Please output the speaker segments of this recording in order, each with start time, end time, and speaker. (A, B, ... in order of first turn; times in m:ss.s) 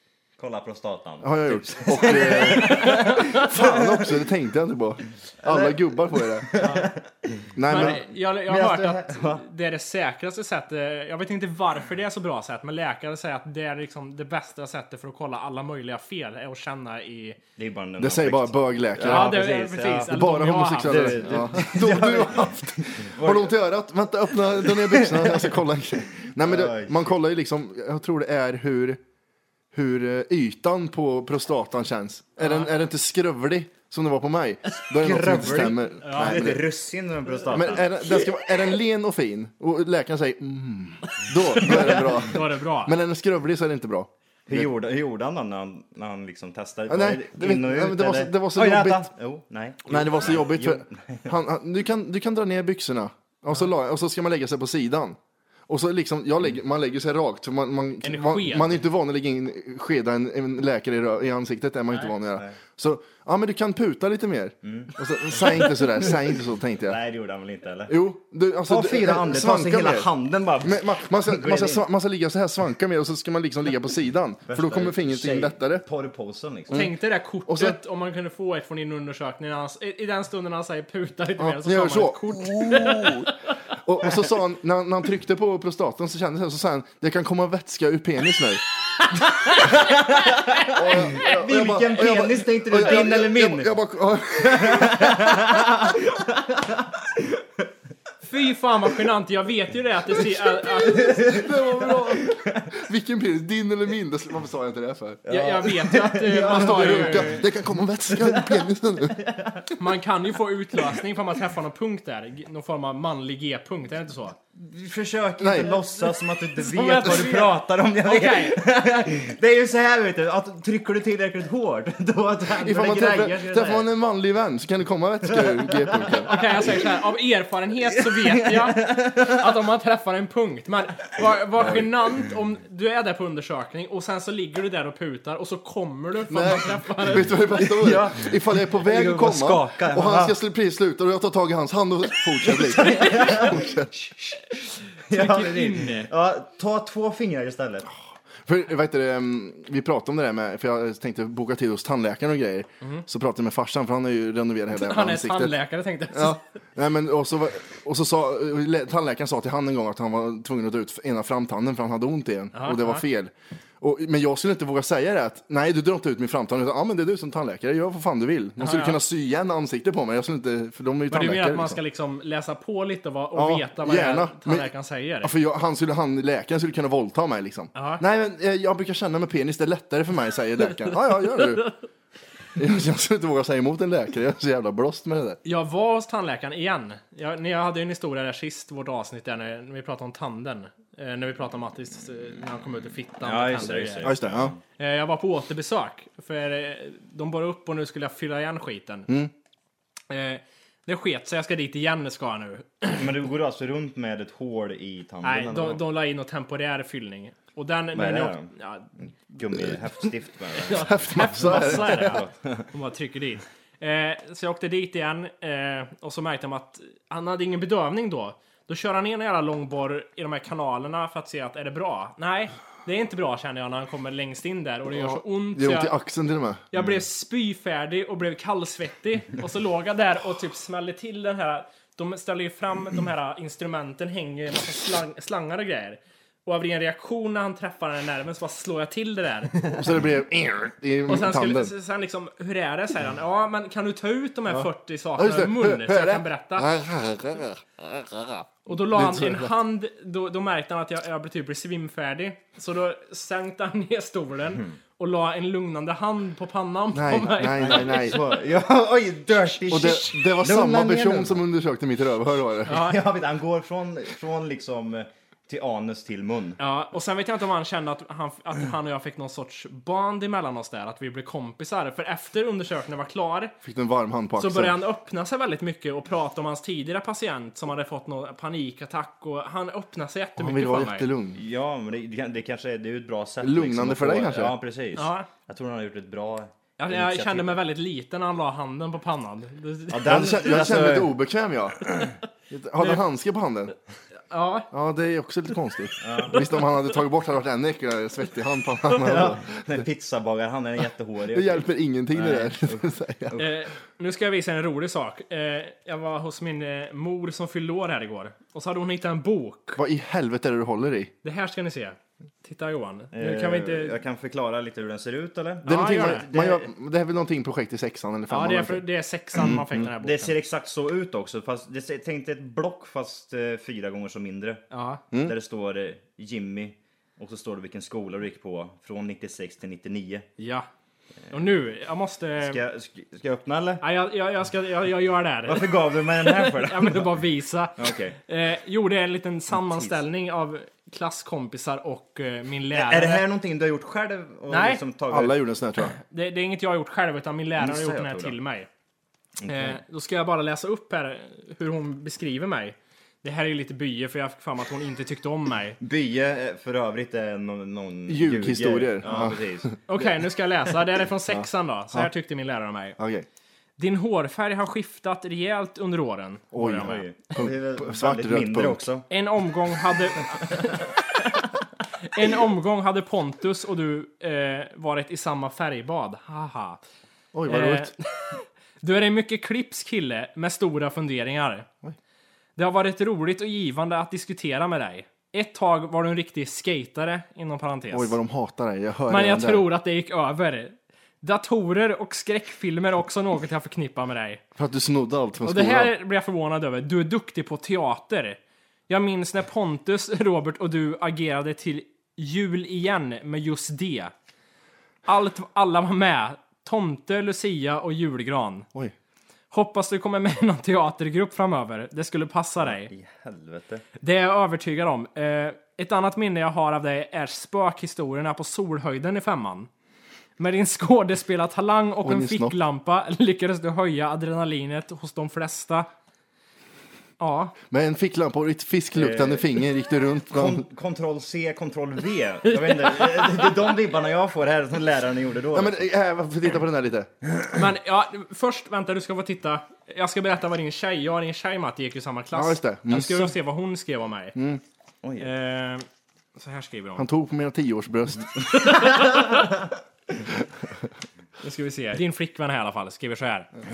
0:00.4-0:04.2 A
0:01.2-0:06.5 B
0:02.4-0:03.5 C
0:05.4-0:09.4 A
0:06.6-0:06.9 C
0:07.6-0:08.0 B
0:07.7-0:17.4 C
0:17.6-0:20.2 A
0:18.0-0:19.5 B
0:19.1-0:21.3 C
0:20.0-0:29.0 B
0:20.8-0:23.5 A
0:24.5-0:25.6 A
0:26.4-0:27.1 A
0:29.7-0:36.7 B
0:32.4-0:32.7 C
0:34.9-0:37.9 A
0:36.0-0:36.4 C
0:37.5-0:44.7 B
0:41.6-0:42.3 A
0:41.9-0:43.0 C
0:44.5-0:51.3 A
0:46.9-0:49.1 B
0:49.9-1:07.0 B
0:58.0-0:58.8 C
1:04.6-1:06.1 A
1:06.8-1:08.0 A
1:07.9-1:10.1 B
1:08.7-1:11.8 A
1:10.6-1:15.8 B
1:14.5-1:16.9 A
1:16.7-1:23.5 C
1:17.4-1:17.8 B
1:21.4-1:28.6 B
1:29.2-1:30.7 C
1:29.6-1:33.7 A
1:30.7-1:35.9 B
1:34.4-1:37.2 A
1:38.2-1:41.2 C
1:40.8-1:42.6 A
1:41.1-1:45.2 B
1:45.2-1:47.5 A
1:45.3-1:47.3 C
1:46.5-1:49.2 B
1:48.1-1:49.7 A
1:49.8-1:54.4 C
1:54.6-2:03.9 A
1:55.4-1:55.8 B
1:56.6-1:58.6 C
2:02.6-2:06.3 B
2:05.2-2:06.8 A
2:06.2-2:17.6 C
2:08.0-2:09.4 A
2:11.6-2:11.8 A
2:16.3-2:23.9 B
2:17.6-2:20.4 A
2:22.4-2:24.5 A
2:25.0-2:27.9 A
2:25.1-2:26.1 C
2:28.4-2:35.5 B
2:34.7-2:36.4 C
2:36.1-2:51.8 B
2:42.5-2:43.0 C
2:48.6-2:49.0 C
2:51.1-2:55.3 C
2:53.3-2:54.7 B
2:55.2-3:01.7 B
2:57.7-2:58.0 C
3:02.5-3:05.4 B
3:05.4-3:14.1 C
3:13.2-3:14.6 A
3:14.0-3:14.5 B
3:14.8-3:19.1 C
3:20.1-3:23.0 C
3:22.9-3:25.8 A
3:25.2-3:28.9 C
3:27.9-3:32.7 A
3:30.7-3:45.9 C
3:30.8-3:32.1 B
3:44.9-3:46.6 B
3:46.7-3:59.7 C
3:46.7-3:47.0 A
3:59.6-4:01.7 B
4:01.1-4:06.7 C
4:04.5-4:09.6 B
4:08.6-4:18.2 C
4:16.9-4:18.2 B
4:17.6-4:21.4 A
4:19.7-4:22.8 B
4:22.7-4:23.0 C
4:22.7-4:26.6 A
4:26.6-4:33.5 C
4:33.6-4:34.8 B
4:34.4-4:41.0 C
4:40.4-4:41.4 B
4:41.3-4:47.6 A
4:43.4-4:44.5 B
4:45.0-4:45.3 C
4:46.8-4:50.3 C
4:49.9-4:51.1 A
4:50.0-4:51.9 B
4:52.5-4:53.7 B
4:54.3-4:54.7 C
4:54.7-4:59.4 B
4:56.0-4:56.4 A
4:59.0-5:03.5 A
5:01.3-5:03.4 B
5:03.4-5:09.8 C
5:09.8-5:11.1 B
5:11.2-5:14.0 C
5:13.1-5:16.7 A
5:15.6-5:18.8 B
5:15.6-5:16.2 C
5:18.3-5:20.4 C
5:19.3-5:19.9 B
5:20.0-5:30.3 A
5:24.7-5:25.0 C
5:30.4-5:30.7 C
5:31.3-5:32.6 C
5:32.4-5:33.8 A
5:33.8-5:43.2 C
5:35.4-5:37.2 A
5:37.8-5:38.2 A
5:39.5-5:40.0 A
5:42.7-5:45.4 A
5:44.5-5:44.8 C
5:45.1-5:46.0 B
5:46.0-5:48.7 C
5:47.6-5:48.4 A
5:49.4-5:49.8 A
5:49.5-5:55.8 C
5:55.8-5:59.8 A
5:58.1-5:59.7 B
5:59.9-6:03.0 C
6:01.3-6:02.1 B
6:03.0-6:03.2 B
6:03.8-6:07.0 C
6:06.5-6:08.8 B
6:06.8-6:09.1 A
6:09.1-6:11.4 C
6:12.0-6:16.8 C
6:17.3-6:17.9 B
6:17.5-6:21.7 C
6:22.6-6:28.1 C
6:27.9-6:29.7 B
6:29.1-6:34.4 C
6:34.6-6:35.9 B
6:35.4-6:44.1 C
6:45.0-6:48.7 C
6:49.5-6:52.9 C
6:52.6-6:53.8 A
6:54.0-6:59.7 C
7:00.4-7:05.9 C
7:02.0-7:02.6 B
7:07.2-7:07.5 C
7:07.7-7:10.6 B
7:08.9-7:09.6 A
7:10.3-7:15.8 A
7:12.7-7:13.3 C
7:15.5-7:17.1 B
7:17.5-7:24.4 C
7:22.3-7:23.3 B
7:24.3-7:24.6 B
7:25.0-7:25.3 A
7:25.2-7:25.8 C
7:26.4-7:27.1 C
7:27.0-7:28.3 B
7:28.5-7:29.5 C
7:31.4-7:33.5 C